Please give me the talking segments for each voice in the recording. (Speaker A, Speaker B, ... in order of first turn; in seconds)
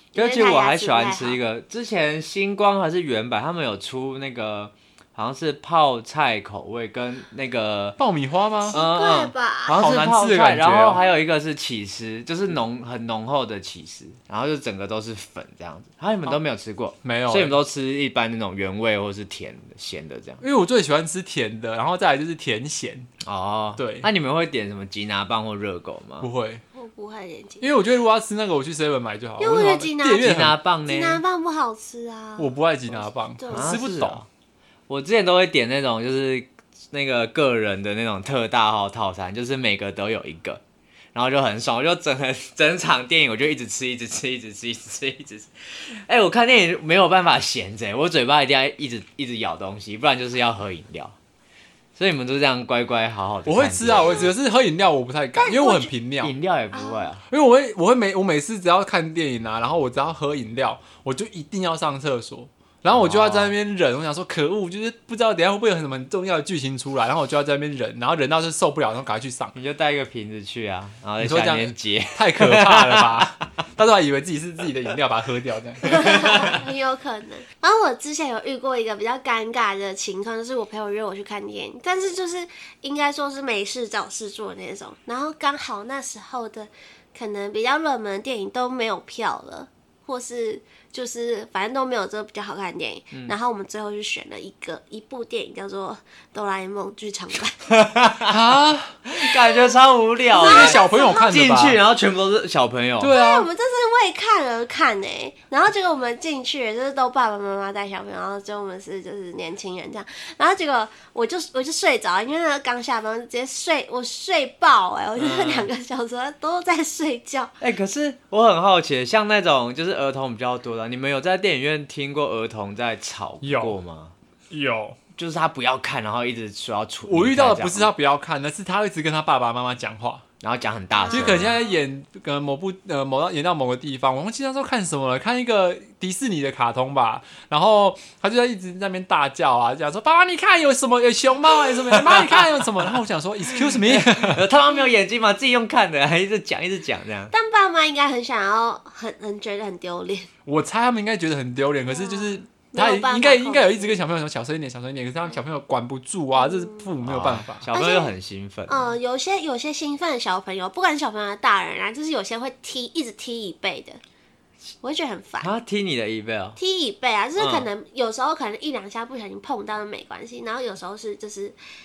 Speaker A: 0.1-1.4, 8.7-9.9, 26.8-27.7, 29.4-30.3, 30.9-33.8, 53.9-54.3, 55.4-55.9, 56.7-57.1, 75.9-97.7, 99.3-99.6, 100.3-101.4, 103.1-117.5, 130.9-131.7, 147.3-150.3, 151.9-154.0, 156.4-156.9, 157.7-158.1, 158.7-164.0, 164.8-165.5, 166.6-171.6
Speaker B: 0.1-8.0, 8.7-20.4, 23.2-26.3, 30.2-31.2, 33.5-34.3, 34.9-40.6, 41.1-51.1, 52.0-54.3, 56.2-57.2, 62.9-63.5, 69.5-73.3, 97.7-98.3, 99.1-103.1, 115.2-115.7, 117.6-124.1, 125.2-127.9, 130.4-131.6, 141.9-142.9, 143.5-147.3, 157.0-158.9, 165.4-166.6, 167.4-167.7
Speaker C: 8.0-8.8, 9.7-11.0, 17.0-17.6, 20.4-23.1, 23.8-24.1, 26.2-26.6, 27.6-30.6, 32.4-34.2, 53.5-56.3, 57.3-69.5, 71.2-76.6, 98.3-99.0, 100.4-101.8, 103.0-103.5, 123.4-123.8, 124.5-125.0, 127.1-130.2, 131.1-144.4, 150.5-157.6